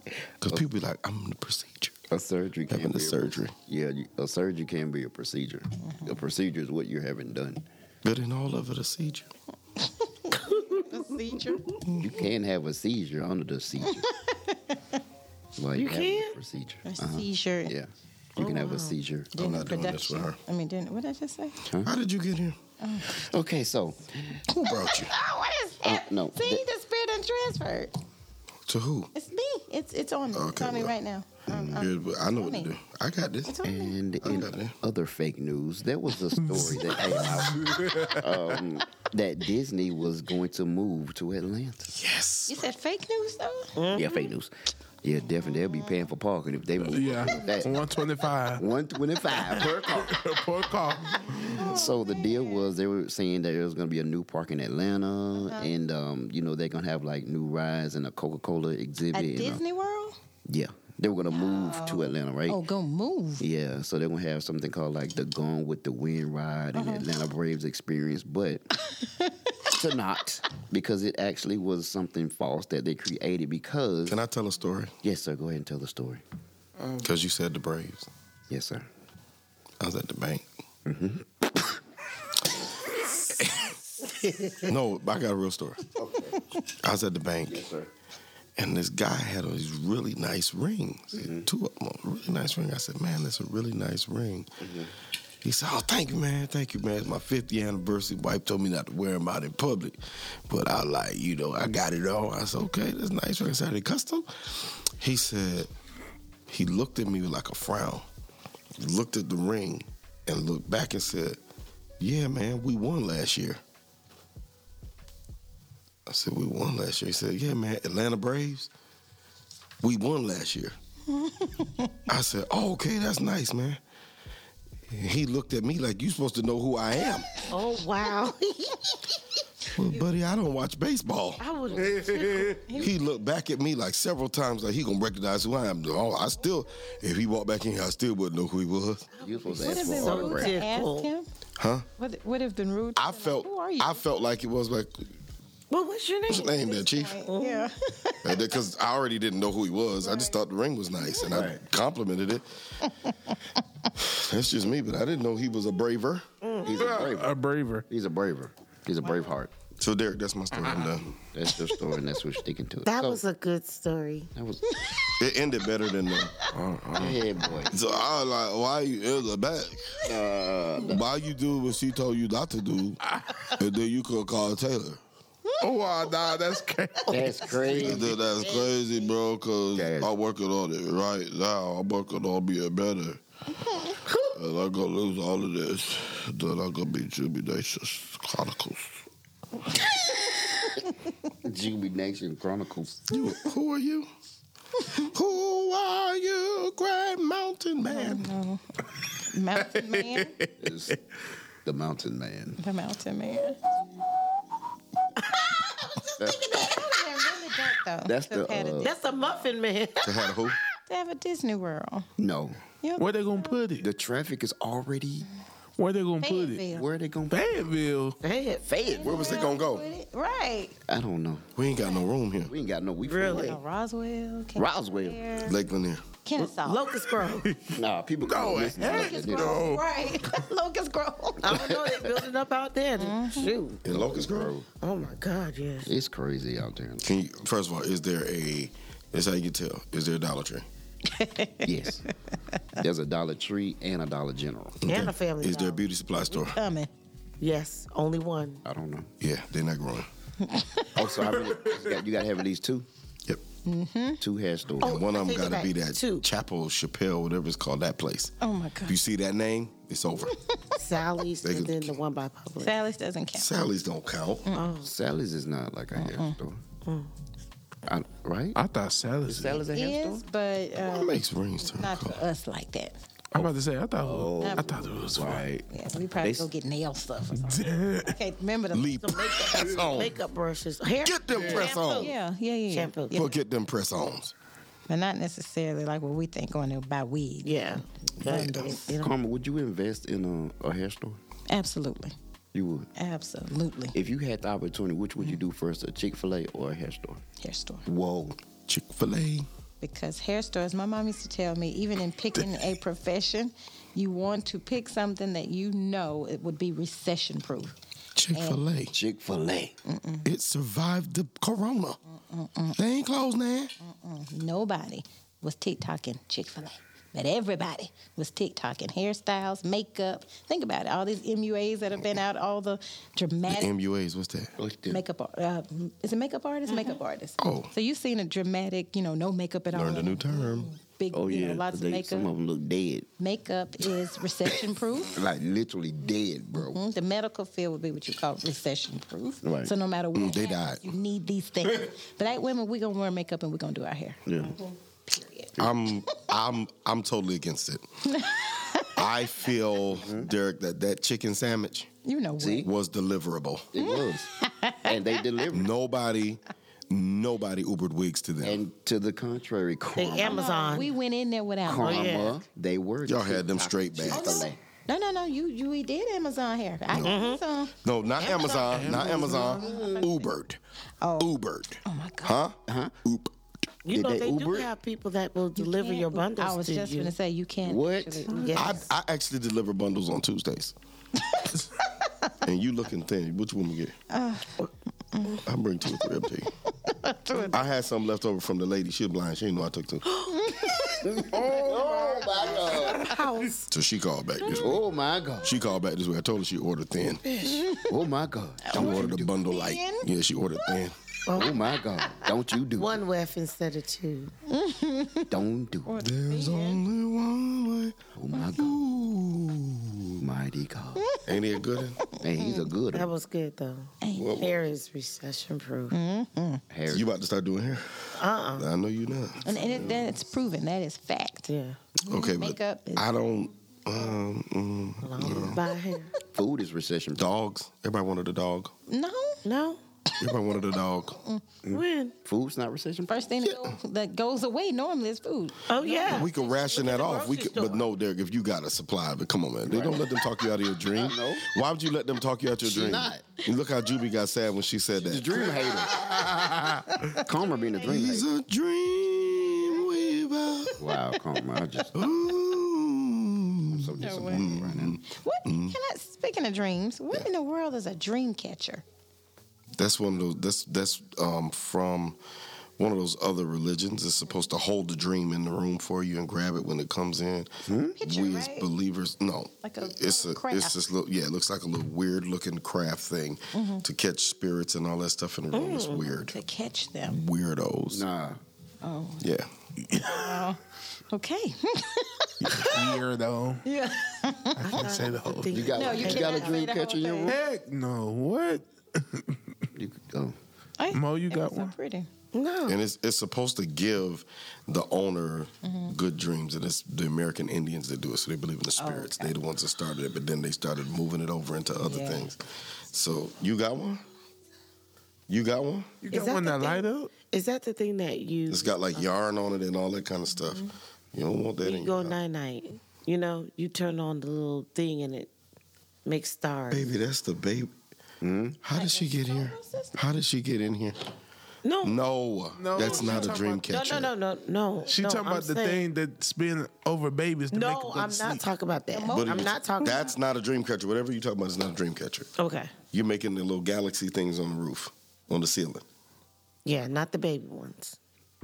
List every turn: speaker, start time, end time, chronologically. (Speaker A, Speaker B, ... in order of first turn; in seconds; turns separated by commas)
Speaker A: 0.4-2.0, Speaker B: 2.1-7.7, Speaker A: 2.7-3.5, Speaker A: 8.0-9.3, Speaker C: 10.3-11.9, Speaker B: 11.9-14.1, Speaker C: 14.0-15.0, Speaker B: 15.6-19.3, Speaker D: 15.7-16.4, Speaker C: 16.9-17.8, Speaker D: 18.4-19.0, Speaker C: 19.3-21.6, Speaker A: 19.4-20.4, Speaker B: 21.6-21.9, Speaker A: 21.8-22.6, Speaker C: 22.8-23.2, Speaker B: 23.1-24.4, Speaker C: 24.5-27.9, Speaker A: 24.6-25.1, Speaker B: 25.8-26.6, Speaker A: 28.7-29.1, Speaker C: 29.1-32.7, Speaker A: 30.3-31.0, Speaker B: 31.5-31.9, Speaker A: 31.8-33.6, Speaker C: 33.5-34.0, Speaker B: 33.6-41.9, Speaker A: 34.2-34.8, Speaker E: 36.5-38.6, Speaker A: 41.9-42.7, Speaker C: 42.5-44.0, Speaker D: 43.8-44.2, Speaker B: 43.9-44.5, Speaker B: 45.0-47.8, Speaker E: 46.8-48.6, Speaker B: 48.6-50.2, Speaker E: 49.2-51.6, Speaker C: 51.4-52.5, Speaker B: 51.5-59.6, Speaker C: 59.1-60.2, Speaker B: 60.5-62.6, Speaker C: 61.3-63.5, Speaker B: 63.4-68.7, Speaker C: 66.7-67.1, Speaker C: 68.9-69.3, Speaker B: 69.7-74.2, Speaker A: 74.1-75.0, Speaker B: 75.0-76.2, Speaker A: 77.0-78.1, Speaker B: 78.5-78.9, Speaker A: 79.8-80.5, Speaker B: 80.9-81.6, Speaker A: 83.3-83.7, Speaker D: 84.2-84.6, Speaker A: 84.6-85.8, Speaker B: 86.0-86.4, Speaker A: 86.7-87.6, Speaker B: 87.5-87.9, Speaker A: 88.6-94.5, Speaker B: 91.2-91.5, Speaker B: 94.6-94.9, Speaker A: 95.4-105.7, Speaker A: 106.5-108.1, Speaker A: 108.8-111.4, Speaker A: 112.0-113.6, Speaker A: 116.1-118.7, Speaker A: 119.8-120.8, Speaker C: 121.2-121.9, Speaker A: 122.1-123.8, Speaker A: 124.9-127.3, Speaker D: 127.5-129.1, Speaker A: 129.7-131.4, Speaker D: 131.4-132.9, Speaker E: 131.7-132.6, Speaker A: 132.8-139.1, Speaker D: 139.2-141.1, Speaker B: 139.2-140.6, Speaker C: 139.6-141.3, Speaker A: 141.6-141.9, Speaker C: 142.0-144.0, Speaker A: 143.0-145.1, Speaker D: 145.7-147.7, Speaker A: 146.3-147.2, Speaker C: 146.7-148.4, Speaker A: 148.2-152.5, Speaker C: 150.0-150.4, Speaker B: 151.2-151.6, Speaker A: 154.0-156.2, Speaker D: 156.4-156.9, Speaker B: 156.6-157.3, Speaker E: 156.7-157.9, Speaker B: 157.9-159.5, Speaker C: 159.0-159.3, Speaker A: 159.8-161.1, Speaker B: 161.2-163.2, Speaker D: 162.8-164.3, Speaker B: 164.3-165.1, Speaker C: 164.7-165.1, Speaker A: 165.2-166.3, Speaker E: 166.5-167.2, Speaker B: 166.9-167.8, Speaker A: 167.7-170.1, Speaker B: 170.1-171.0, Speaker A: 170.8-173.0, Speaker E: 173.1-173.5, Speaker A: 173.6-175.0, Speaker E: 175.6-178.1, Speaker B: 177.1-178.6, Speaker A: 177.8-183.2, Speaker B: 179.8-180.1, Speaker A: 183.8-189.0, Speaker B: 191.4-193.1, Speaker A: 193.1-194.1, Speaker A: 195.0-198.3, Speaker C: 197.9-198.6, Speaker C: 199.2-200.4, Speaker E: 199.8-200.5, Speaker B: 200.6-201.0, Speaker B: 201.7-202.6, Speaker C: 202.6-203.6, Speaker B: 206.2-206.5, Speaker C: 206.5-208.9, Speaker B: 208.1-208.9, Speaker D: 208.8-210.2, Speaker A: 210.0-210.6, Speaker C: 210.9-212.1, Speaker B: 212.2-212.6, Speaker C: 212.8-213.6, Speaker E: 213.0-213.9, Speaker B: 213.8-215.3, Speaker E: 215.8-216.6, Speaker C: 216.2-216.9, Speaker B: 216.7-217.5, Speaker E: 217.3-218.2, Speaker D: 218.2-218.6, Speaker B: 218.6-219.3, Speaker C: 218.9-220.8, Speaker A: 219.0-219.9, Speaker B: 220.9-221.5, Speaker A: 221.6-222.5, Speaker B: 222.5-223.6, Speaker D: 223.0-223.6, Speaker C: 223.2-225.6, Speaker B: 224.6-225.2, Speaker A: 225.4-226.0, Speaker C: 226.2-226.9, Speaker D: 226.4-227.5, Speaker E: 227.2-230.3, Speaker B: 227.7-229.8, Speaker C: 228.8-231.8, Speaker D: 231.4-233.8, Speaker B: 231.5-232.0, Speaker C: 233.0-233.6, Speaker A: 233.8-234.6, Speaker B: 233.9-234.7, Speaker D: 234.8-235.9, Speaker B: 235.8-237.1, Speaker A: 237.0-240.7, Speaker C: 241.1-241.9, Speaker B: 241.6-242.1, Speaker B: 242.8-244.9, Speaker A: 244.8-246.6, Speaker D: 244.8-245.8, Speaker C: 246.5-246.9, Speaker D: 247.4-248.6, Speaker B: 248.6-249.1, Speaker A: 249.2-250.1, Speaker C: 250.4-251.0, Speaker B: 250.9-252.9, Speaker C: 253.7-254.2, Speaker B: 254.2-255.0, Speaker A: 254.8-258.4, Speaker D: 254.8-256.2, Speaker C: 258.4-259.0, Speaker A: 258.9-260.3, Speaker D: 260.8-262.7, Speaker A: 261.4-262.0, Speaker C: 262.6-263.5, Speaker A: 263.3-264.5, Speaker C: 264.5-264.7, Speaker D: 264.5-264.9, Speaker B: 264.8-266.6, Speaker C: 265.9-266.4, Speaker D: 266.9-267.1, Speaker B: 267.9-268.6, Speaker E: 268.6-269.6, Speaker B: 269.2-270.2, Speaker C: 269.7-271.2, Speaker A: 270.8-272.2, Speaker C: 271.8-273.0, Speaker E: 273.3-275.5, Speaker B: 274.0-275.7, Speaker C: 274.4-274.9, Speaker C: 275.7-279.2, Speaker B: 276.2-276.5, Speaker E: 277.3-278.1, Speaker A: 278.7-280.2, Speaker D: 279.0-282.1, Speaker A: 281.0-282.1, Speaker E: 281.3-281.7, Speaker C: 281.6-283.3, Speaker D: 282.7-283.2, Speaker A: 283.1-284.3, Speaker C: 284.9-288.9, Speaker D: 287.4-289.1, Speaker B: 288.9-291.2, Speaker C: 291.5-292.1, Speaker B: 292.5-292.9, Speaker C: 293.0-293.9, Speaker B: 293.9-297.2, Speaker C: 297.4-297.9, Speaker B: 297.9-298.4, Speaker A: 298.7-299.5, Speaker C: 299.8-307.8, Speaker A: 308.2-309.0, Speaker C: 308.3-308.6, Speaker B: 308.9-309.8, Speaker C: 309.9-310.2, Speaker A: 310.2-312.0, Speaker C: 312.3-312.8, Speaker A: 312.8-313.7, Speaker C: 313.8-323.7, Speaker A: 323.5-324.5, Speaker B: 324.6-325.0, Speaker C: 324.9-332.3, Speaker A: 327.4-327.7, Speaker A: 329.7-330.7, Speaker B: 331.1-333.1, Speaker C: 333.2-335.2, Speaker B: 335.1-336.8, Speaker C: 336.6-344.2, Speaker B: 339.4-339.7, Speaker A: 340.1-340.9, Speaker B: 344.3-344.6, Speaker C: 345.1-345.5, Speaker A: 345.6-348.2, Speaker C: 348.1-349.0, Speaker A: 348.9-351.9, Speaker B: 349.9-350.3, Speaker C: 352.1-352.7, Speaker B: 352.4-352.7, Speaker A: 352.6-353.7, Speaker B: 353.7-354.3, Speaker C: 353.8-355.2, Speaker B: 354.9-355.7, Speaker A: 355.5-358.6, Speaker B: 358.4-360.7, Speaker D: 360.0-361.0, Speaker C: 360.2-362.2, Speaker B: 361.6-364.6, Speaker D: 361.8-362.4, Speaker A: 363.1-364.5, Speaker C: 364.1-367.7, Speaker A: 366.9-367.2, Speaker D: 367.0-367.4, Speaker A: 367.8-370.6, Speaker D: 368.2-369.5, Speaker E: 368.7-369.1, Speaker C: 368.9-370.3, Speaker B: 369.5-370.1, Speaker C: 371.0-371.3, Speaker A: 371.2-373.3, Speaker C: 371.9-372.4, Speaker B: 372.7-372.9, Speaker D: 373.9-377.1, Speaker B: 373.9-374.7, Speaker C: 375.6-378.6, Speaker B: 377.6-378.5, Speaker D: 378.3-378.8, Speaker A: 378.5-380.8, Speaker C: 381.3-381.6, Speaker A: 382.4-383.9, Speaker C: 384.1-385.4, Speaker A: 385.4-386.5, Speaker C: 386.9-387.6, Speaker D: 387.3-387.6, Speaker A: 387.5-390.1, Speaker D: 390.1-390.9, Speaker C: 390.4-391.4, Speaker B: 391.0-393.2, Speaker E: 391.4-392.0, Speaker D: 391.7-393.7, Speaker C: 392.7-393.1, Speaker A: 393.7-394.8, Speaker B: 394.5-395.6, Speaker A: 395.4-397.2, Speaker D: 397.2-397.7, Speaker C: 397.4-397.9, Speaker B: 397.8-399.3, Speaker C: 398.6-400.1, Speaker A: 398.7-401.0, Speaker D: 401.3-401.7, Speaker B: 401.4-403.0, Speaker C: 402.0-402.3, Speaker D: 402.8-404.3, Speaker C: 404.5-406.8, Speaker B: 405.3-406.0, Speaker A: 406.0-409.9, Speaker B: 408.1-408.8, Speaker B: 410.2-411.2, Speaker A: 411.2-412.0, Speaker C: 412.2-412.7, Speaker B: 412.2-413.1, Speaker D: 412.9-415.9, Speaker C: 414.0-414.4, Speaker A: 414.1-414.6, Speaker C: 415.9-416.6, Speaker B: 416.7-417.1, Speaker A: 416.9-420.1, Speaker D: 418.2-418.7, Speaker C: 419.4-421.5, Speaker D: 421.5-421.8, Speaker C: 422.0-423.1, Speaker A: 422.1-425.6, Speaker D: 425.0-426.1, Speaker B: 426.2-427.3, Speaker A: 427.2-428.7, Speaker C: 428.9-429.4, Speaker D: 429.4-429.8, Speaker A: 430.2-431.2, Speaker B: 431.6-433.7, Speaker D: 431.7-432.1, Speaker C: 433.1-436.3, Speaker D: 435.7-437.8, Speaker A: 436.0-446.3, Speaker B: 439.7-440.1, Speaker B: 440.9-441.5, Speaker B: 442.6-443.3, Speaker B: 445.0-446.1, Speaker E: 445.9-446.6, Speaker C: 446.2-448.1, Speaker B: 447.1-448.3, Speaker A: 447.8-450.9, Speaker B: 450.8-452.1, Speaker A: 451.9-455.8, Speaker B: 453.7-455.0, Speaker C: 454.0-458.9, Speaker A: 459.8-462.2, Speaker A: 462.8-476.3, Speaker B: 467.6-468.0, Speaker C: 468.0-468.7, Speaker C: 469.6-470.8, Speaker C: 473.5-473.9, Speaker D: 475.5-476.0, Speaker C: 476.2-477.2, Speaker A: 477.1-478.1, Speaker B: 477.9-478.4, Speaker C: 478.8-479.2, Speaker A: 479.2-479.5, Speaker E: 479.9-480.5, Speaker C: 480.0-482.9, Speaker E: 482.4-483.6, Speaker C: 483.6-484.9, Speaker E: 484.6-485.8, Speaker D: 484.6-486.8, Speaker B: 485.5-487.4, Speaker C: 485.7-487.4, Speaker E: 487.3-489.5, Speaker B: 489.8-490.4, Speaker C: 490.8-492.1, Speaker E: 490.9-491.7, Speaker D: 492.3-492.8, Speaker A: 492.7-504.0, Speaker C: 495.6-495.9, Speaker C: 498.8-499.4, Speaker C: 501.9-502.3, Speaker A: 505.3-505.9, Speaker E: 506.0-507.1, Speaker D: 506.1-509.1, Speaker A: 508.5-512.2, Speaker D: 511.6-515.3, Speaker D: 516.0-516.9, Speaker A: 516.7-517.7, Speaker B: 518.2-518.6, Speaker A: 518.6-521.0, Speaker C: 518.8-519.9, Speaker D: 521.6-522.0, Speaker A: 521.8-524.1, Speaker E: 522.6-523.8, Speaker D: 522.8-525.8, Speaker E: 524.9-528.4, Speaker D: 527.5-530.0, Speaker C: 528.9-530.1, Speaker A: 529.1-532.3, Speaker D: 532.4-532.7, Speaker A: 532.9-535.8, Speaker D: 536.6-538.0